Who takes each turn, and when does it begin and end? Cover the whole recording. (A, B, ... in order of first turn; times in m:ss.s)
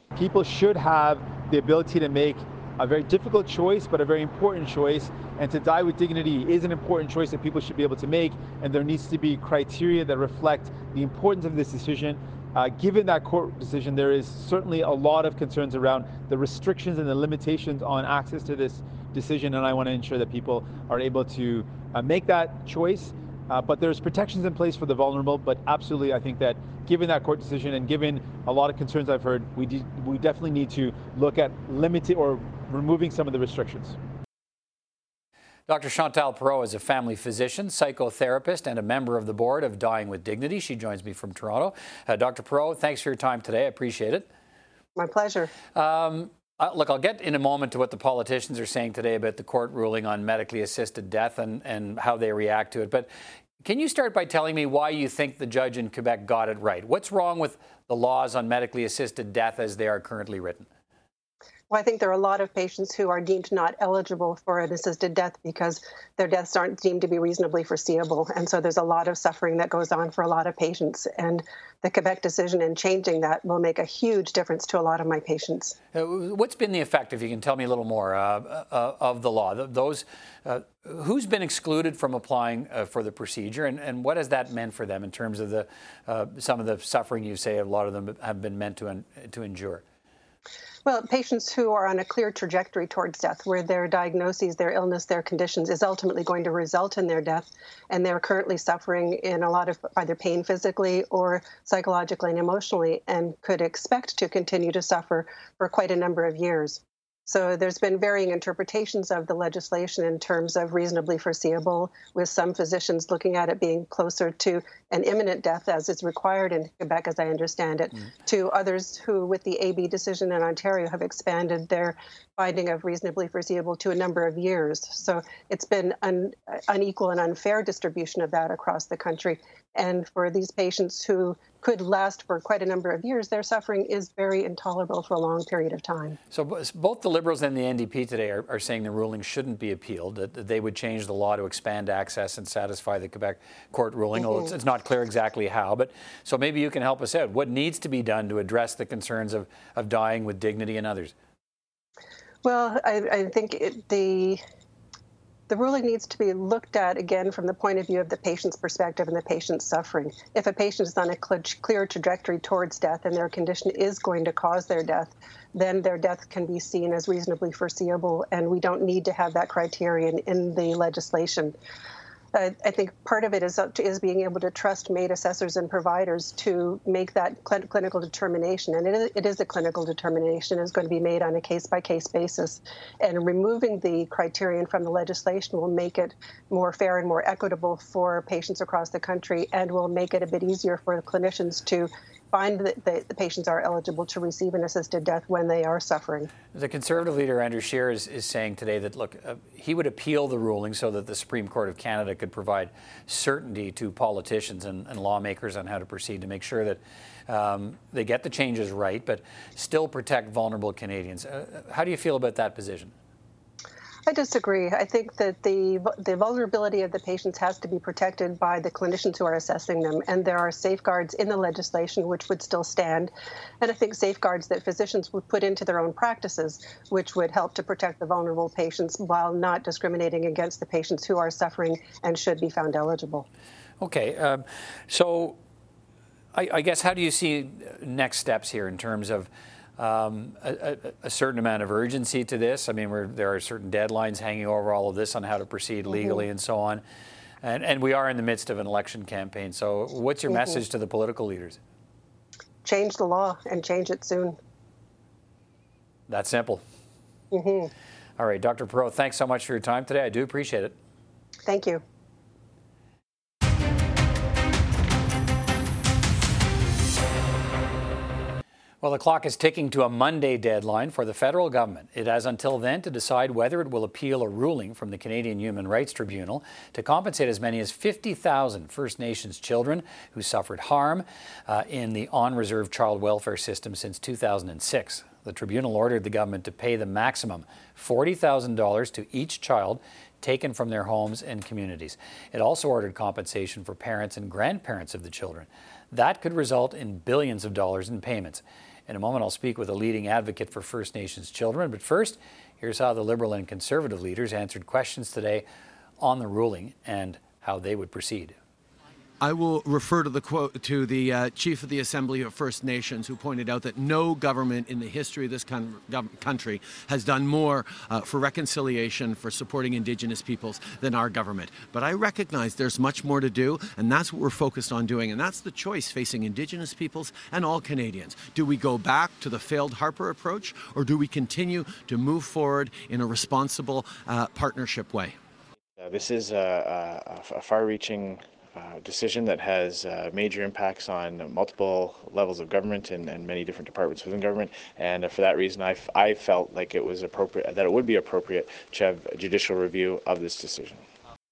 0:00.1-0:34.0 A
0:35.7-0:44.3 B
0:45.0-0:45.5 C
0:45.7-0:53.1 B
0:53.6-1:00.7 B
1:01.7-1:15.8 C
1:15.9-1:29.8 B
1:30.8-2:16.2 C
2:16.3-2:31.1 B
2:32.4-2:34.4 C
2:35.5-2:51.6 C
2:52.3-3:16.3 C
3:16.5-3:32.9 B
3:34.1-3:43.1 C
3:43.6-3:53.2 C
3:53.8-3:55.4 B
3:56.3-4:06.8 B
4:05.9-4:06.2 C
4:07.4-4:11.6 B
4:12.6-4:14.4 C
4:16.1-4:16.6 B
4:17.3-4:17.7 C
4:18.2-4:20.8 B
4:21.4-4:21.8 C
4:28.8-5:05.4 B
5:06.0-5:08.4 B
5:09.2-5:35.2 D
5:35.8-5:50.8 E